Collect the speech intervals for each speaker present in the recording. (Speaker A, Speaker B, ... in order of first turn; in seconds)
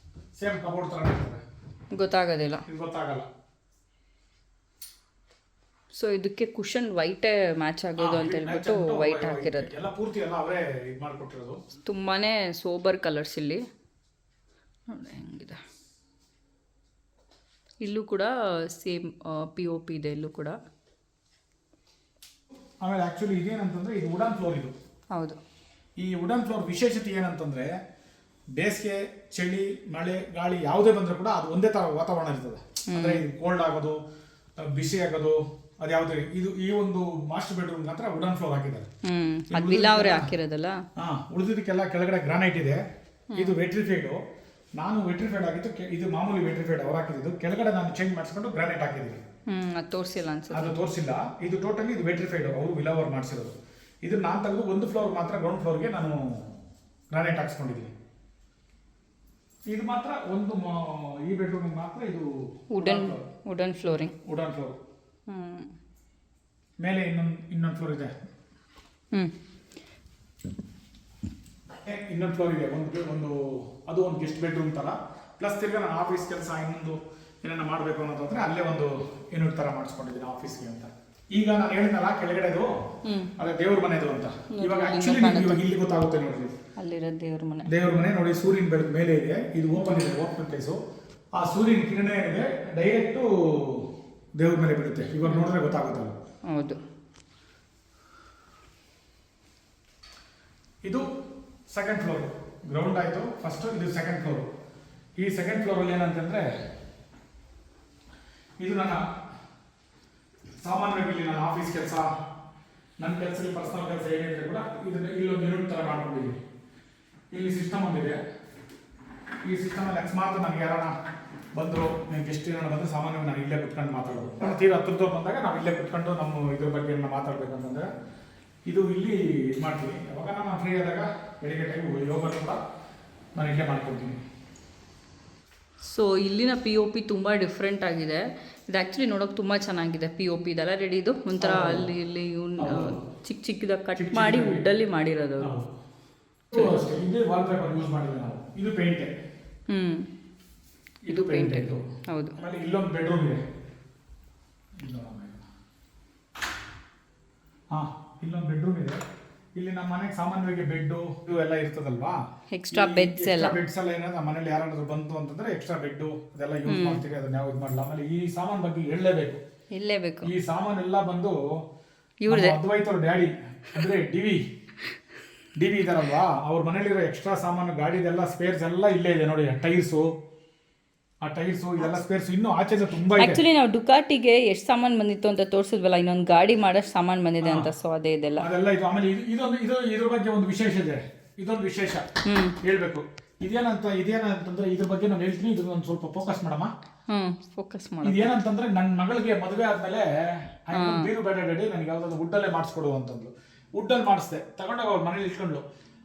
Speaker A: 0.4-1.4, 2.7-3.3, 8.0-11.6, 22.8-24.8, 26.0-27.7, 28.6-34.0, 34.6-38.9, 39.5-40.3, 41.0-42.8, 43.3-44.2, 44.8-49.2, 50.5-56.5, 57.1-57.9, 59.7-63.2, 64.2-64.8, 66.8-68.1, 71.7-82.7, 83.4-86.6, 87.7-90.8, 91.4-96.2, 101.7-104.5, 105.2-106.5, 108.6-109.0, 110.6-112.1, 113.0-116.4, 117.3-118.2, 119.5-120.9, 121.5-127.9, 128.7-132.6, 133.3-134.2, 141.4-141.9, 142.6-143.1, 144.0-144.7, 145.4-145.7, 146.5-149.1, 151.1-153.4, 154.8-155.4, 157.7-159.0, 159.6-162.2, 162.7-169.4, 170.2-171.4, 172.3-174.4, 175.6-180.1, 181.2-183.4, 187.4-187.7, 188.4-192.1, 192.6-196.7, 198.0-205.7
Speaker B: 1.9-2.6, 5.9-9.7, 11.9-13.6, 14.9-15.6, 17.8-20.6, 32.9-33.2, 39.0-40.8, 43.3-43.6, 49.5-50.8, 62.7-64.1, 65.3-65.7, 83.1-83.3, 84.5-85.6, 86.8-87.7, 89.8-90.1, 95.2-95.5, 96.5-96.8, 135.8-145.6, 149.7-150.1, 151.1-152.4, 162.5-163.6, 166.7-167.0, 169.7-170.3, 172.3-172.6, 183.2-188.5, 192.3-192.6, 197.1-198.3, 200.7-201.1